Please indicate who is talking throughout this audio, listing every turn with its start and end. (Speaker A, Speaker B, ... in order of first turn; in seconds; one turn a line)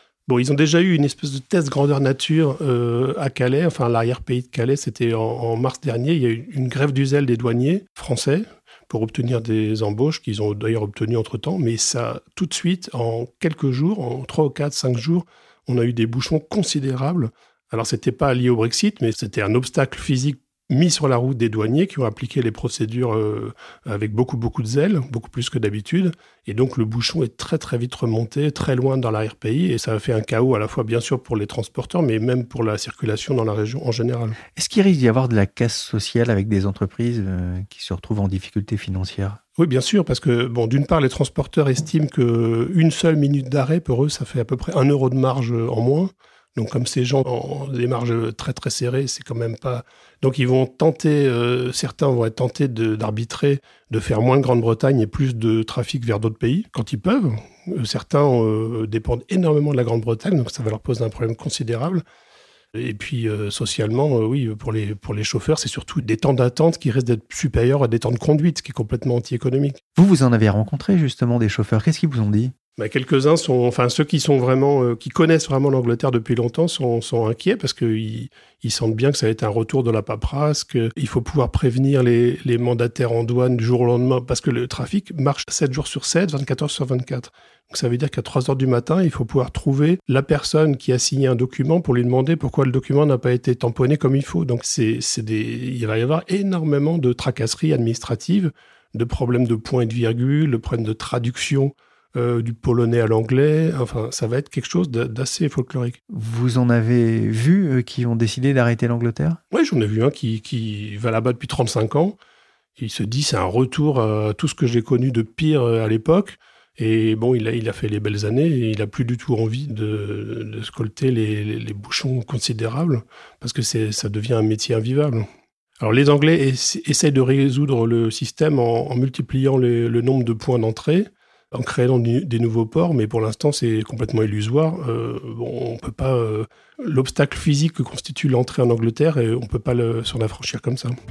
Speaker A: 0.3-34.4
Speaker B: 34.5-39.4
Speaker A: 39.6-62.0
Speaker A: 62.7-69.8
Speaker B: 70.0-72.5
Speaker A: 72.8-106.0
Speaker B: 106.1-109.4
Speaker A: 109.5-112.2
Speaker A: 112.8-125.2
Speaker A: 125.8-140.9